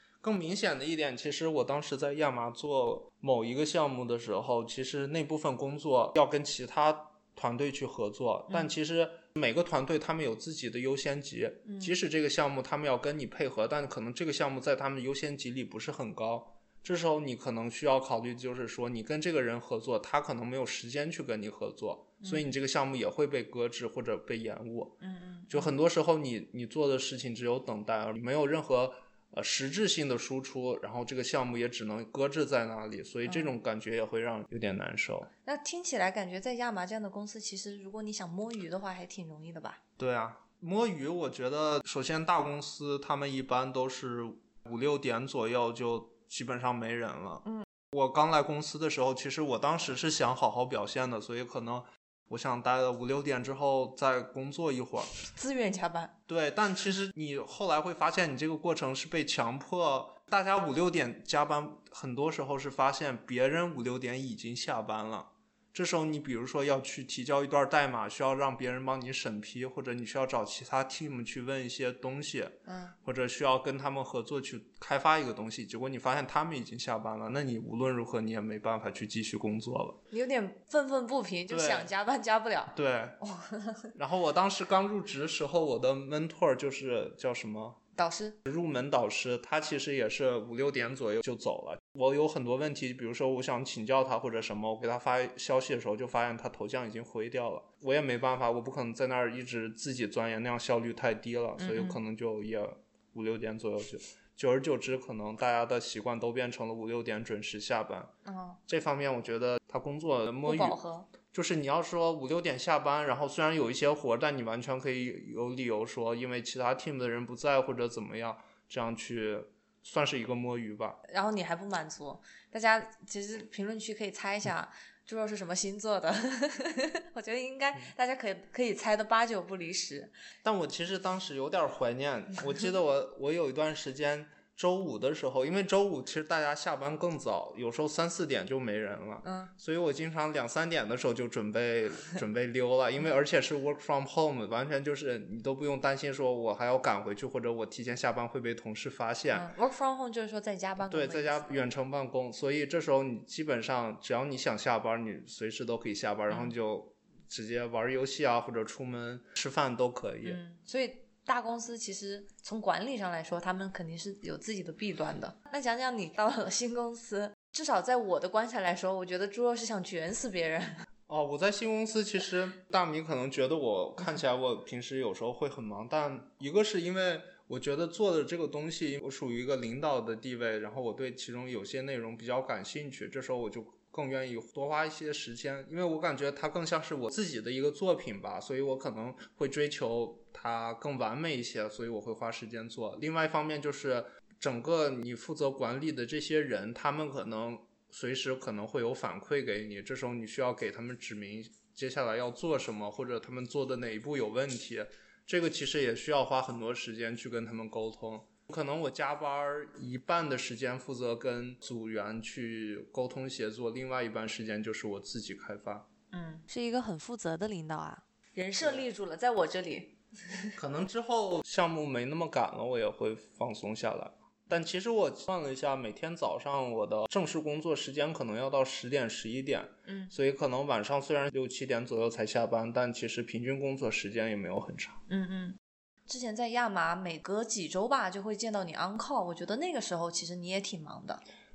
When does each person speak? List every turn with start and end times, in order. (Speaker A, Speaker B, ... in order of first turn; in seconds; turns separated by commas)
Speaker A: 0.2-25.0, Speaker B: 11.7-11.9, Speaker B: 22.2-22.5, Speaker B: 25.0-25.7, Speaker A: 25.5-35.3, Speaker B: 33.3-33.5, Speaker B: 35.5-39.8, Speaker A: 40.0-55.1, Speaker B: 55.2-56.2, Speaker A: 56.3-80.0, Speaker B: 72.7-73.0, Speaker B: 80.1-83.9, Speaker A: 81.5-81.9, Speaker A: 82.7-83.2, Speaker A: 84.0-87.8, Speaker B: 88.0-88.4, Speaker A: 88.5-108.1, Speaker B: 101.6-102.0, Speaker B: 108.2-108.6, Speaker A: 108.7-121.0, Speaker B: 110.4-111.1, Speaker B: 121.1-130.1, Speaker A: 130.4-149.5, Speaker B: 139.2-139.5, Speaker B: 149.3-151.5, Speaker A: 150.8-160.4, Speaker B: 160.2-170.8, Speaker A: 171.1-215.9, Speaker B: 216.1-220.5, Speaker A: 220.6-235.0, Speaker B: 229.9-230.1, Speaker B: 235.1-241.2